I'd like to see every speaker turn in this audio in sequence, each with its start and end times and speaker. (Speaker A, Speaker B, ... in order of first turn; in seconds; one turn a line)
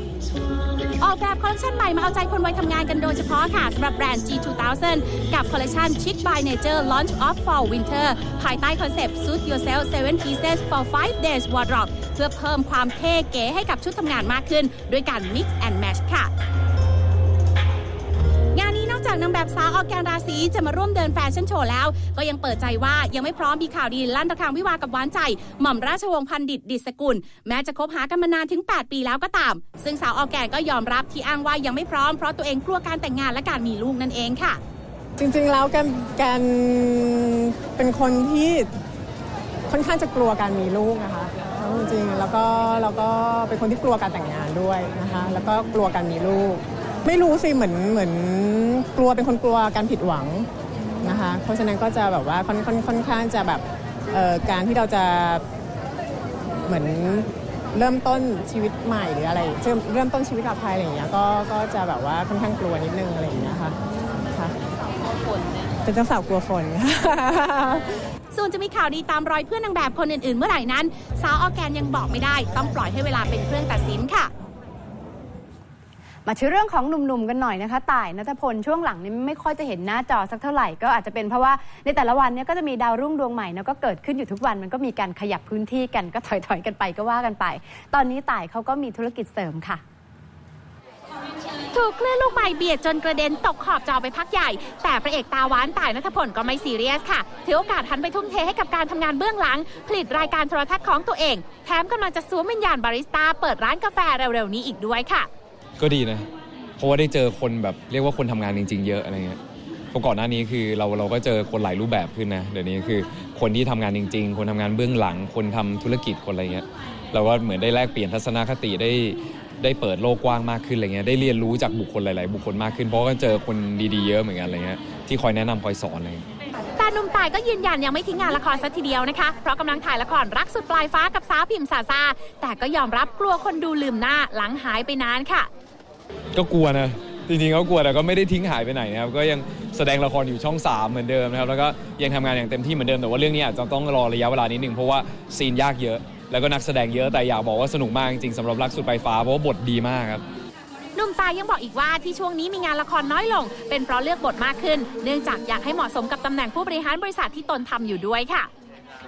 Speaker A: 1.0-16.3
Speaker A: 18.5-34.6
Speaker B: 35.2-38.7
Speaker B: 39.7-50.5
Speaker B: 51.0-55.4
Speaker B: 56.6-63.8
Speaker B: 64.3-64.5
Speaker B: 65.8-67.8
Speaker A: 68.3-74.3
Speaker C: 76.2-89.8
Speaker A: 91.7-105.3
Speaker D: 105.8-109.4
Speaker D: 109.9-126.2
Speaker A: 126.8-135.5
Speaker D: 136.3-150.2
Speaker A: 150.9-158.5